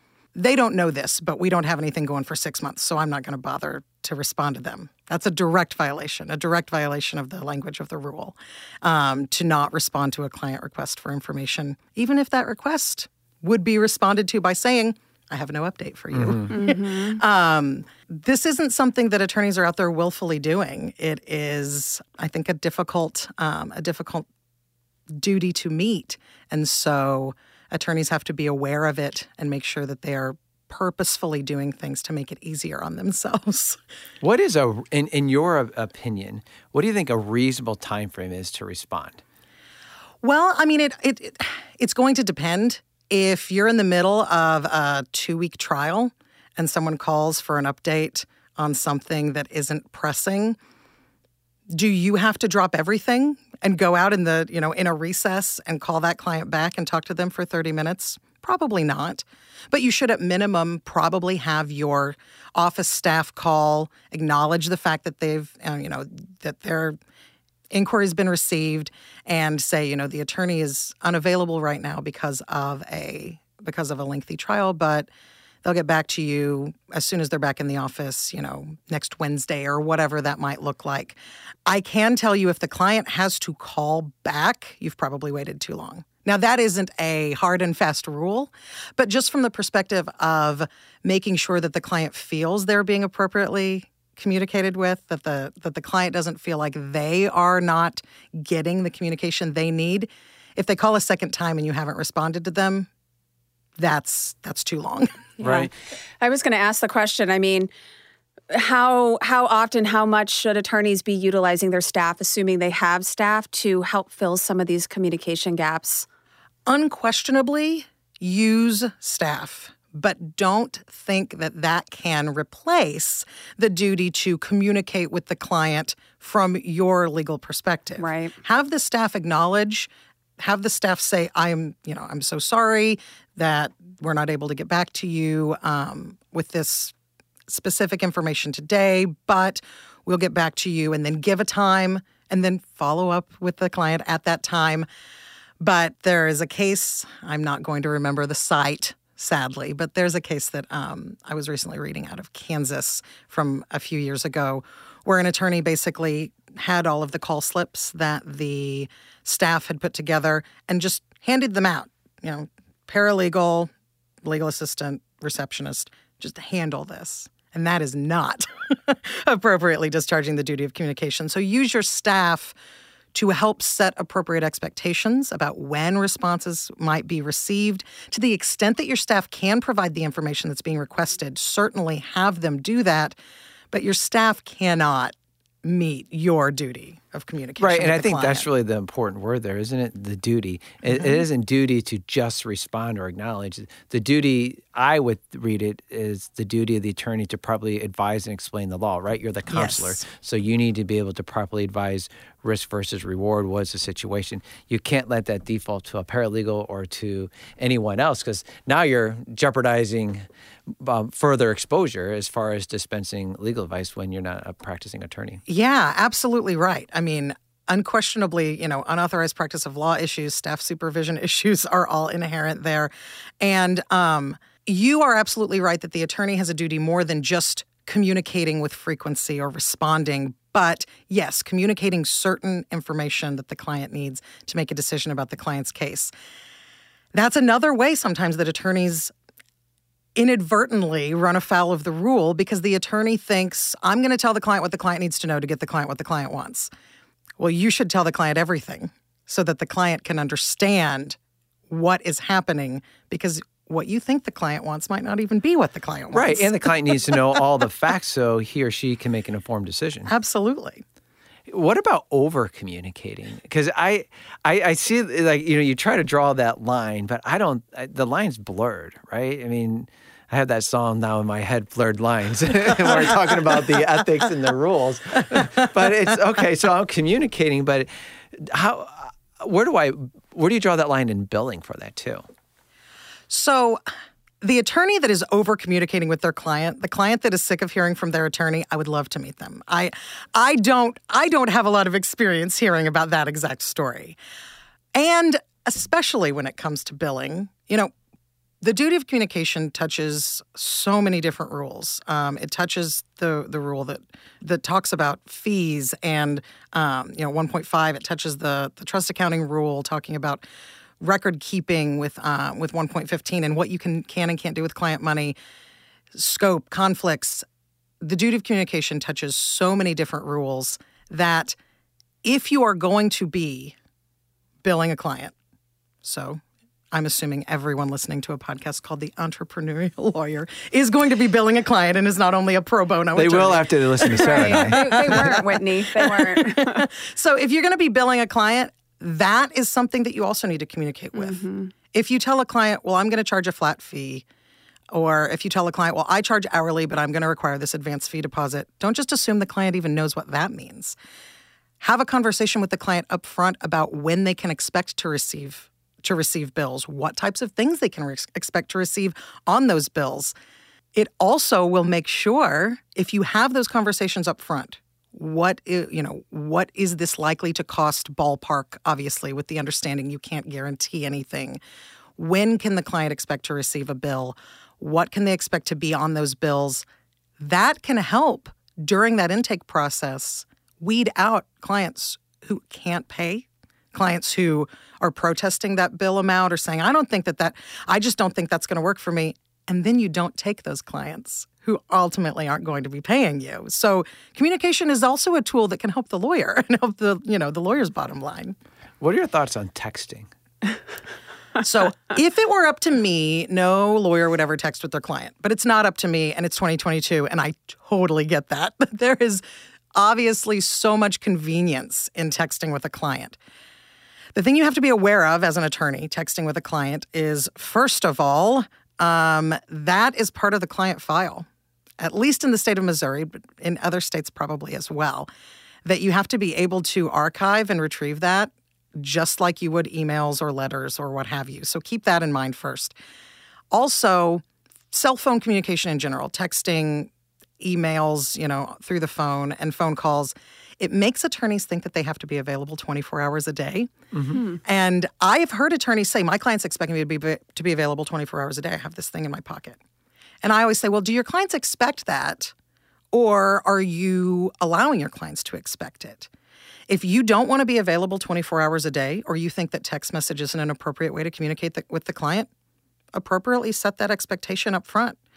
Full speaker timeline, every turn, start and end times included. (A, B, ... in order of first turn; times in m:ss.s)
0:00.4-0:24.3 A
0:16.1-0:16.5 B
0:16.5-0:17.2 C
0:25.1-0:33.8 A
0:34.2-0:39.2 B
0:40.2-0:50.6 A
0:51.7-1:07.0 A
1:07.7-1:15.1 A
1:15.6-1:42.9 A
1:43.8-1:45.3 A
1:45.4-1:45.7 C
1:45.4-1:45.7 B
1:46.2-1:47.7 C
1:48.5-1:56.1 C
1:56.7-2:16.9 A
2:08.0-2:08.3 C
2:17.5-2:24.9 A
2:25.6-2:43.7 A
2:44.2-2:52.6 A
2:53.1-3:03.2 A
3:03.7-3:08.5 A
3:07.6-3:35.4 B
3:10.9-3:11.2 A
3:19.5-3:20.0 A
3:35.5-3:56.1 A
3:57.1-3:59.1 A
4:00.2-4:06.7 A
4:07.4-4:11.2 A
4:11.7-4:16.5 A
4:16.1-4:20.1 B
4:20.1-4:20.8 A
4:21.5-4:42.2 B
4:43.3-4:43.8 A
4:44.4-4:54.2 A
4:55.0-4:57.9 A
4:58.6-5:10.4 A
5:11.0-5:15.4 A
5:16.1-5:17.4 A
5:18.0-5:21.6 A
5:22.2-5:23.8 A
5:24.6-5:25.3 A
5:26.0-5:26.4 A
5:26.9-5:44.2 A
5:33.1-5:35.4 B
5:34.1-5:36.9 C
5:41.2-5:41.7 C
5:44.9-5:51.0 A
5:51.8-6:00.3 A
6:01.0-6:11.6 A
6:12.2-6:16.8 A
6:17.4-6:38.6 A
6:39.0-6:40.3 B
6:41.6-6:49.4 A
6:50.0-6:53.4 A
6:54.3-7:01.5 A
7:02.0-7:05.3 A
7:05.8-7:13.0 A
7:13.7-7:29.8 A
7:24.1-7:24.4 B
7:30.4-7:32.5 A
7:33.1-7:36.3 A
7:36.9-7:42.5 A
7:43.1-7:45.2 A